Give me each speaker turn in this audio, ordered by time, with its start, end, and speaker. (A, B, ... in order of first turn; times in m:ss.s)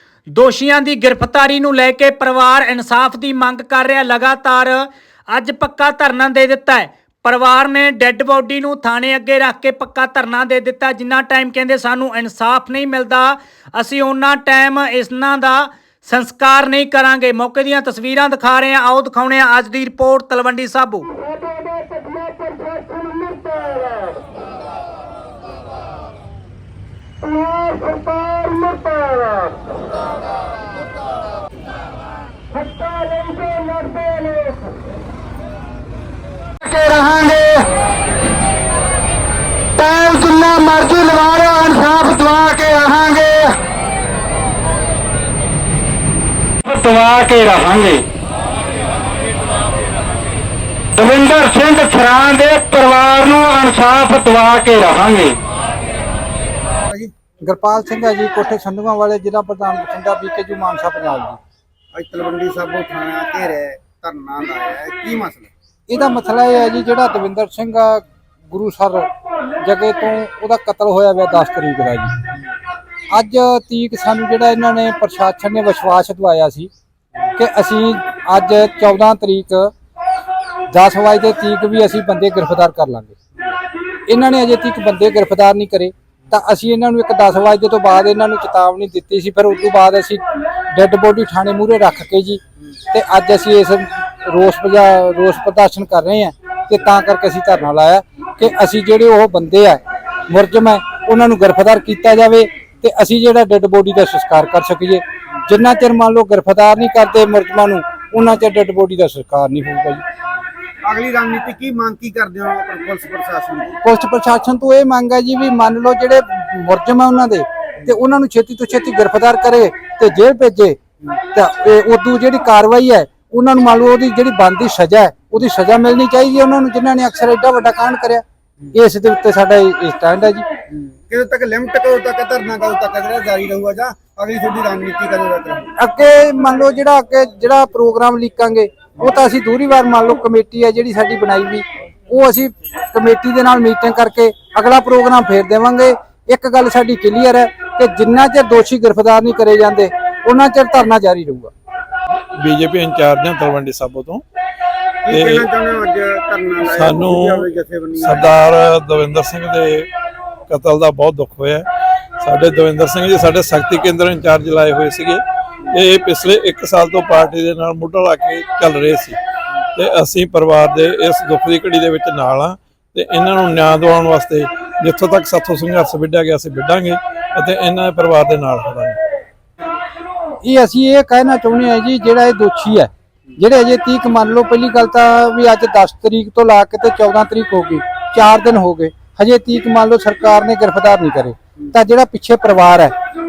0:00.3-0:21.1 A
0:36.6-0:37.6 B
0:39.8-0:43.6 B
0:46.6-0:48.0 B
0:51.0-0:55.4 B
0:57.4-1:01.4 C
1:01.9-1:05.5 D
1:05.9-1:09.1 C
1:09.6-1:12.1 C
1:13.1-1:16.7 C
1:17.4-1:19.7 C
1:20.7-1:23.2 C
1:24.1-1:50.0 C
1:50.8-1:53.8 D
1:53.8-2:00.8 C
2:01.3-2:10.4 C
2:10.7-2:15.7 D
2:15.8-2:31.5 C
2:32.4-2:34.2 E
2:35.0-2:38.4 D
2:35.1-2:35.5 E
2:36.6-2:37.4 E
2:38.0-2:39.9 E
2:40.5-2:41.6 E
2:42.2-2:49.2 E
2:49.8-2:59.0 E
3:00.4-3:12.9 C